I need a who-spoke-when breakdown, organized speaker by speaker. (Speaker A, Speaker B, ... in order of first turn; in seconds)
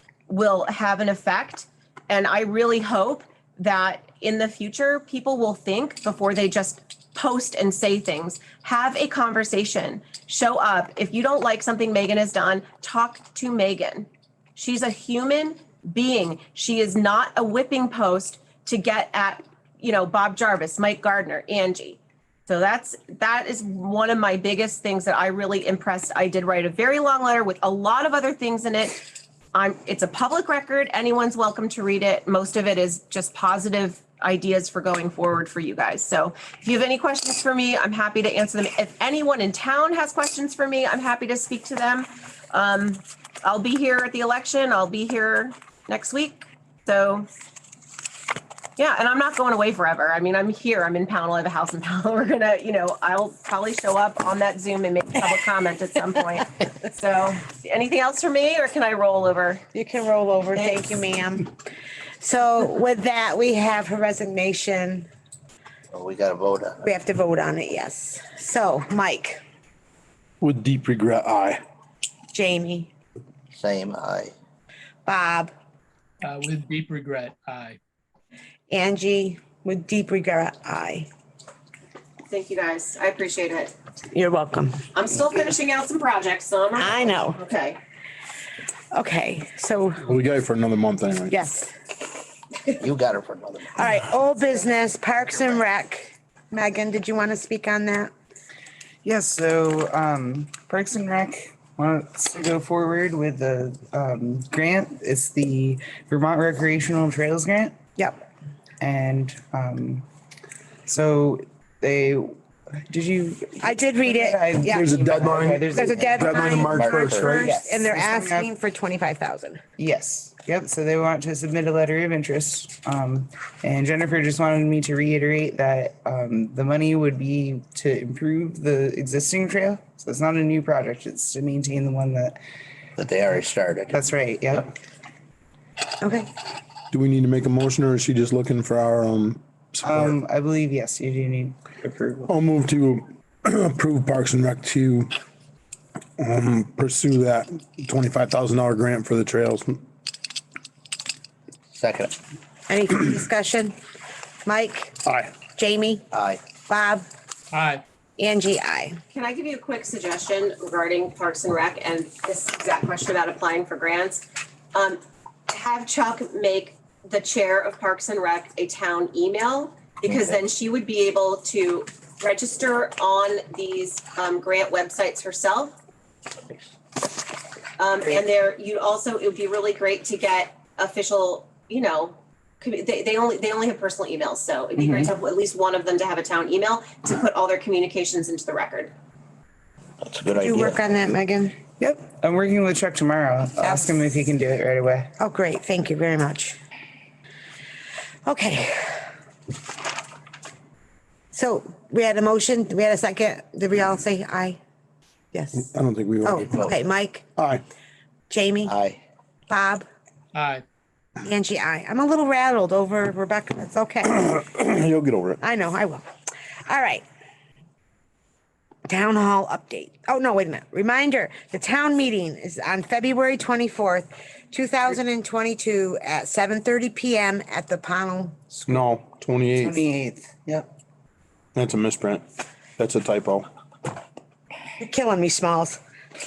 Speaker A: 0.3-29.0, 29.5-47.3, 48.8-59.6, 60.5-61.0, 82.3-83.7, 84.9-87.8, 159.1-175.8, 177.8-188.9
Speaker B: 59.7-61.5, 62.2-65.1, 66.8-69.4, 72.3-72.9, 75.0-75.5, 78.7-81.1, 84.1-84.8, 86.8-87.4, 88.9-90.0, 91.3-91.7, 93.7-98.1, 108.0-108.2, 113.6-114.9, 115.7-119.6, 136.0-136.3, 152.7-153.7, 154.4-156.0, 156.6-157.1, 158.2-159.0, 190.3-191.6, 193.6-194.0, 195.2-196.6, 198.2-199.1, 201.3-204.6, 205.3-205.7, 206.2-207.2, 208.3-208.7, 209.5-209.8, 211.2-214.4, 215.4-216.1, 216.7-217.0, 218.9-228.4, 234.8-235.8
Speaker C: 65.9-66.8, 73.5-74.3, 92.8-93.8, 115.8-117.4, 133.0-134.0, 151.7-152.1, 156.1-156.4, 190.0-190.8, 206.3-206.8, 208.7-209.0
Speaker D: 70.4-71.6, 90.0-91.3, 114.7-117.6, 136.9-140.2, 142.3-145.1, 146.2-149.8, 155.1-155.3, 205.6-206.3, 207.4-207.6, 214.2-215.4, 228.7-229.8, 231.5-232.2, 232.8-233.4
Speaker E: 76.2-77.8, 157.5-157.8, 210.3-210.6
Speaker F: 99.0-107.7, 108.8-110.0, 110.8-116.3, 117.4-118.5, 119.8-132.4, 133.9-134.7, 139.8-142.3, 184.8-185.1, 191.8-195.1, 229.5-230.7